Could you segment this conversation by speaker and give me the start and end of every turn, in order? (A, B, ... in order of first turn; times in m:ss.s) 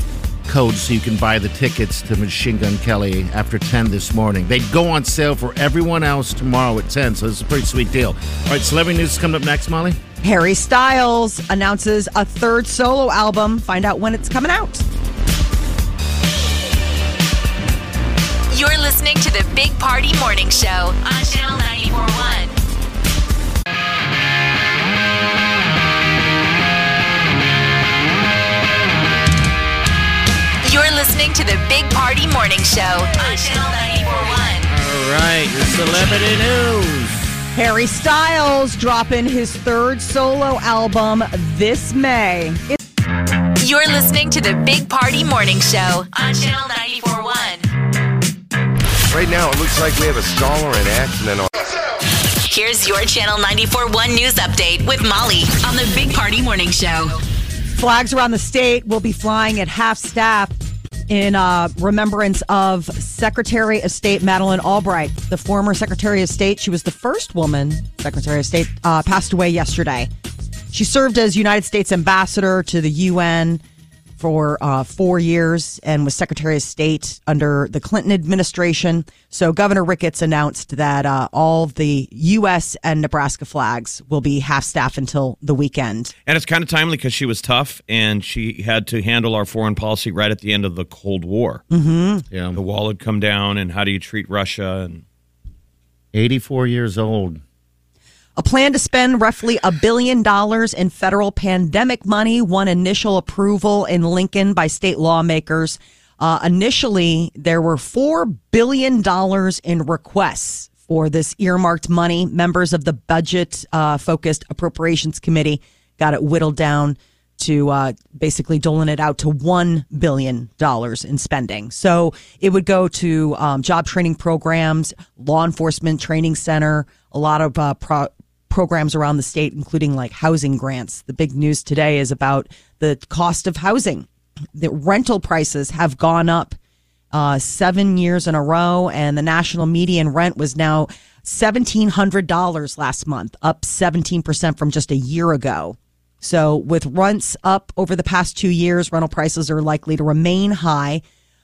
0:00.4-0:10.0 A
0:10.2-0:14.8 B
0:18.5-0:22.6 C
0:30.6-0:34.7 C
0:34.7-0:37.3 A
0:37.5-0:42.8 B
0:43.6-0:47.6 C
0:49.1-0:51.5 D
0:52.4-0:57.1 C
0:57.7-1:00.5 B
1:01.1-1:10.1 B
1:10.7-1:13.6 B
1:14.2-1:26.1 B
1:26.3-1:31.6 E
1:31.7-1:32.2 B
1:32.3-1:32.6 A
1:32.5-1:35.0 E
1:36.1-1:37.4 A
1:38.4-2:16.6 B
2:17.1-2:31.0 B